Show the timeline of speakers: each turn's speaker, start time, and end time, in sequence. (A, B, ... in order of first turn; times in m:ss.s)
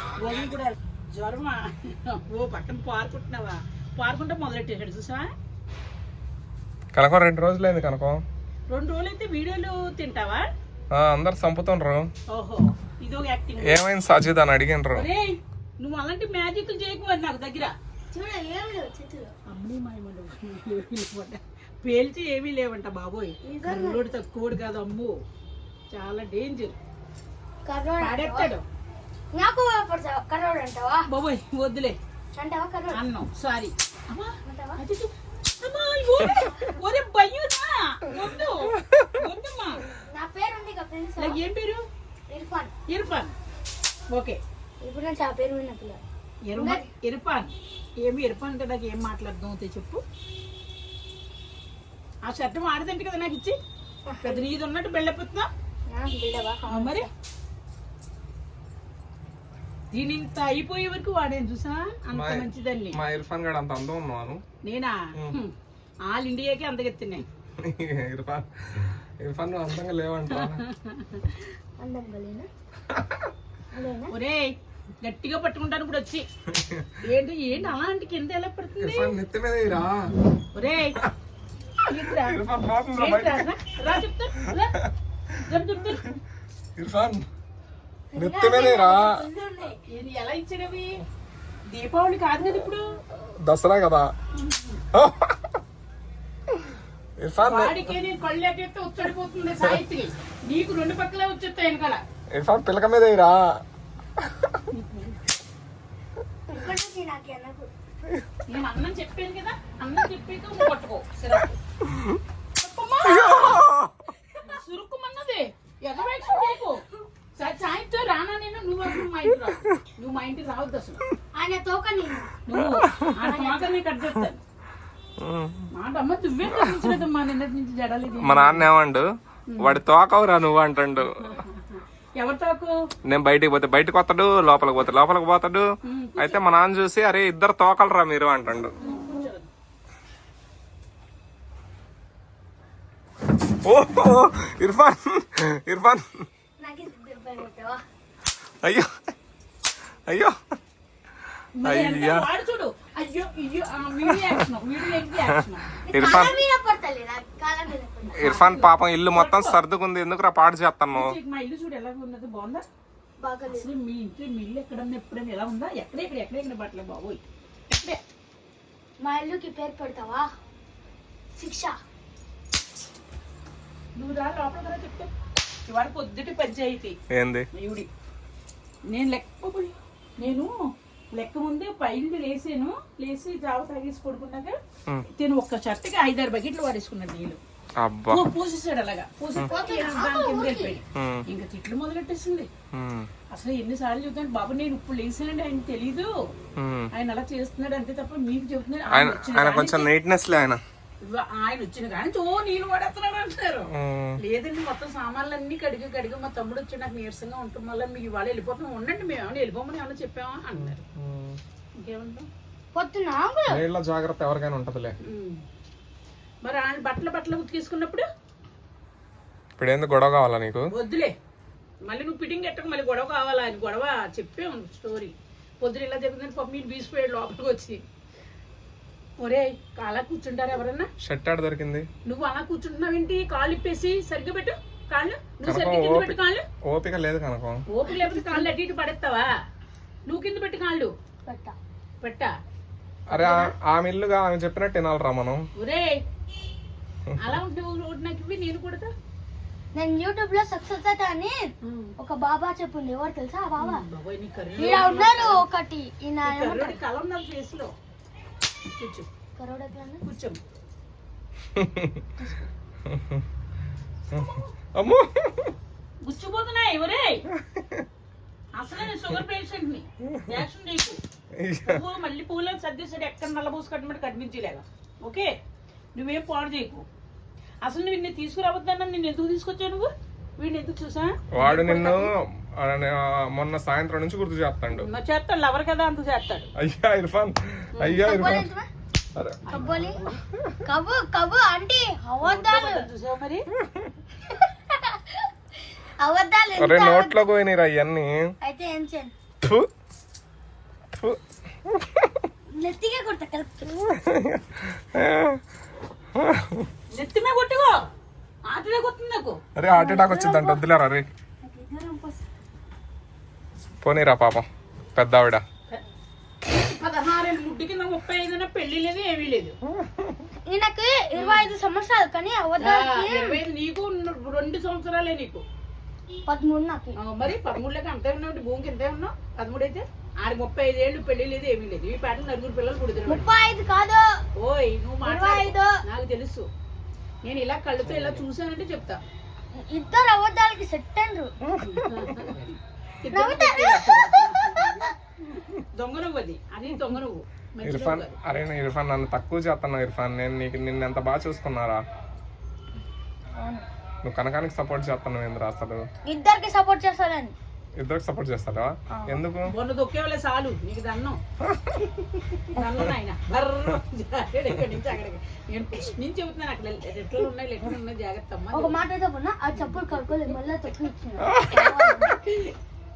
0:00.2-0:05.3 A
0:06.9-0:08.2 B
0:08.7-0:10.5 A
0:10.9-0:12.1 B
0:12.3-0:13.8 A
0:13.6-0:15.1 B
0:14.9-0:17.7 A
0:18.1-0:19.3 C
0:19.5-0:25.1 A
0:23.4-0:24.0 C
0:25.9-0:26.8 A
0:27.6-0:28.5 C
0:28.0-0:28.6 A
0:29.3-0:31.0 C
0:31.1-0:32.0 A
0:32.4-0:33.0 C
0:32.9-0:39.8 A
0:34.4-0:34.8 C
0:38.8-0:39.1 B
0:40.1-0:41.4 C
0:41.2-0:41.8 A
0:42.3-0:42.7 C
0:42.9-0:43.3 A
0:44.1-0:44.4 A
0:44.8-0:46.0 C
0:46.4-0:50.0 A
0:46.6-0:46.9 C
0:52.2-0:53.6 A
0:54.0-0:54.4 C
0:54.2-0:55.5 A
0:55.9-0:57.1 C
0:56.7-0:57.1 A
0:59.9-1:03.0 A
1:02.1-1:04.4 B
1:04.6-1:05.5 A
1:06.1-1:07.2 A
1:07.6-1:10.6 B
1:10.3-1:11.5 A
1:11.8-1:12.5 C
1:12.9-1:13.3 B
1:13.7-1:14.1 C
1:14.1-1:16.2 A
1:16.5-1:17.0 B
1:17.0-1:19.2 A
1:18.8-1:20.1 B
1:20.5-1:21.0 A
1:21.8-1:22.4 A
1:22.1-1:23.5 B
1:22.9-1:24.8 A
1:25.4-1:26.2 A
1:26.8-1:27.2 B
1:28.1-1:29.8 C
1:28.2-1:29.2 B
1:29.9-1:31.0 A
1:31.7-1:32.8 A
1:33.4-1:34.1 B
1:34.4-1:34.8 A
1:34.9-1:35.5 B
1:37.2-1:37.9 B
1:37.4-1:42.0 A
1:42.3-1:43.6 B
1:44.2-1:44.6 B
1:44.7-1:45.2 A
1:46.5-1:47.7 C
1:48.5-1:51.6 A
1:51.8-1:52.2 B
1:52.6-1:53.7 A
1:53.2-1:53.9 B
1:54.4-1:56.8 A
1:57.4-2:01.0 A
2:01.3-2:02.3 C
2:02.4-2:04.4 A
2:03.2-2:03.7 C
2:05.2-2:05.7 B
2:05.7-2:08.6 A
2:06.6-2:06.9 B
2:08.2-2:11.4 B
2:09.5-2:09.8 A
2:11.0-2:12.7 A
2:13.1-2:18.8 B
2:15.8-2:16.4 A
2:18.8-2:19.5 A
2:23.6-2:26.3 B
2:26.6-2:27.8 C
2:28.6-2:28.9 B
2:30.1-2:30.3 B
2:31.6-2:35.8 A
2:31.6-2:32.3 B
2:35.9-2:38.3 C
2:35.9-2:36.4 B
2:38.1-2:39.6 A
2:38.2-2:41.2 B
2:40.9-2:42.6 A
2:43.2-2:43.7 C
2:43.5-2:48.0 A
2:49.0-2:50.3 C
2:51.4-2:51.8 C
2:54.0-2:55.1 A
2:55.7-2:57.0 A
2:57.1-2:57.4 B
2:57.5-2:57.9 A
2:58.9-3:00.5 A
3:01.1-3:04.6 A
3:05.2-3:07.4 A
3:07.8-3:08.3 B
3:08.1-3:12.5 A
3:09.4-3:10.8 C
3:10.9-3:11.2 B
3:12.7-3:13.1 B
3:13.3-3:16.1 A
3:16.6-3:16.9 B
3:16.9-3:19.9 A
3:18.9-3:20.6 B
3:21.0-3:23.7 A
3:23.7-3:24.2 B
3:24.2-3:30.8 A
3:30.5-3:31.4 B
3:31.8-3:32.3 A
3:32.7-3:33.6 C
3:33.5-3:35.0 B
3:35.0-3:35.4 A
3:36.4-3:38.1 A
3:39.6-3:40.7 B
3:40.7-3:41.1 A
3:41.8-3:47.8 A
3:49.2-3:50.9 A
3:51.0-3:51.8 B
3:52.0-3:56.4 A
3:55.4-3:57.6 B
3:57.7-3:59.3 A
3:57.8-3:58.5 C
4:00.1-4:00.9 A
4:01.2-4:01.5 C
4:02.0-4:02.3 A
4:03.1-4:05.4 B
4:03.2-4:03.5 A
4:05.6-4:06.0 A
4:07.2-4:08.9 A
4:09.7-4:11.4 C
4:11.6-4:11.9 A
4:12.0-4:13.8 C
4:13.6-4:15.4 A
4:14.6-4:16.8 C
4:16.2-4:17.7 A
4:18.8-4:19.0 A
4:19.4-4:20.0 C
4:20.0-4:20.4 A
4:21.5-4:22.0 B
4:22.8-4:23.2 B
4:24.1-4:24.5 A
4:24.1-4:25.5 B
4:26.0-4:27.2 A
4:27.4-4:27.8 B
4:28.6-4:31.0 A
4:31.4-4:31.8 B
4:31.6-4:35.3 A
4:35.9-4:36.8 A
4:37.6-4:42.1 A
4:41.3-4:44.9 B
4:44.7-4:46.5 A
4:46.6-4:48.5 B
4:47.7-4:48.0 A
4:47.9-4:48.6 C
4:49.1-4:49.7 B
4:49.4-4:50.2 A
4:49.5-4:50.0 C
4:50.6-4:52.9 C
4:52.2-4:53.4 A
4:54.4-4:55.0 C
4:56.0-4:57.2 C
4:56.6-4:58.2 B
4:58.4-4:59.1 C
4:59.4-4:59.7 B
5:00.9-5:02.2 B
5:02.6-5:03.8 C
5:03.9-5:05.4 B
5:06.2-5:06.7 B
5:06.9-5:07.8 A
5:08.5-5:09.4 A
5:09.6-5:11.1 B
5:09.7-5:10.6 C
5:11.4-5:12.2 C
5:13.8-5:15.4 B
5:16.5-5:19.6 A
5:20.4-5:23.4 C
5:21.2-5:21.5 A
5:22.6-5:25.4 A
5:26.3-5:27.0 C
5:27.0-5:33.2 A
5:33.1-5:34.1 C
5:34.4-5:36.5 A
5:35.0-5:35.7 C
5:37.2-5:39.0 A
5:37.8-5:38.2 B
5:39.7-5:41.3 C
5:41.6-5:48.4 A
5:43.1-5:44.9 C
5:47.6-5:51.8 B
5:53.4-5:53.6 C
5:54.0-5:55.8 B
5:56.0-5:57.3 C
5:57.8-5:59.5 B
5:58.9-5:59.2 C
5:59.5-6:01.2 A
6:01.5-6:01.8 B
6:02.5-6:08.8 A
6:08.5-6:12.5 C
6:09.6-6:09.9 A
6:11.2-6:12.1 B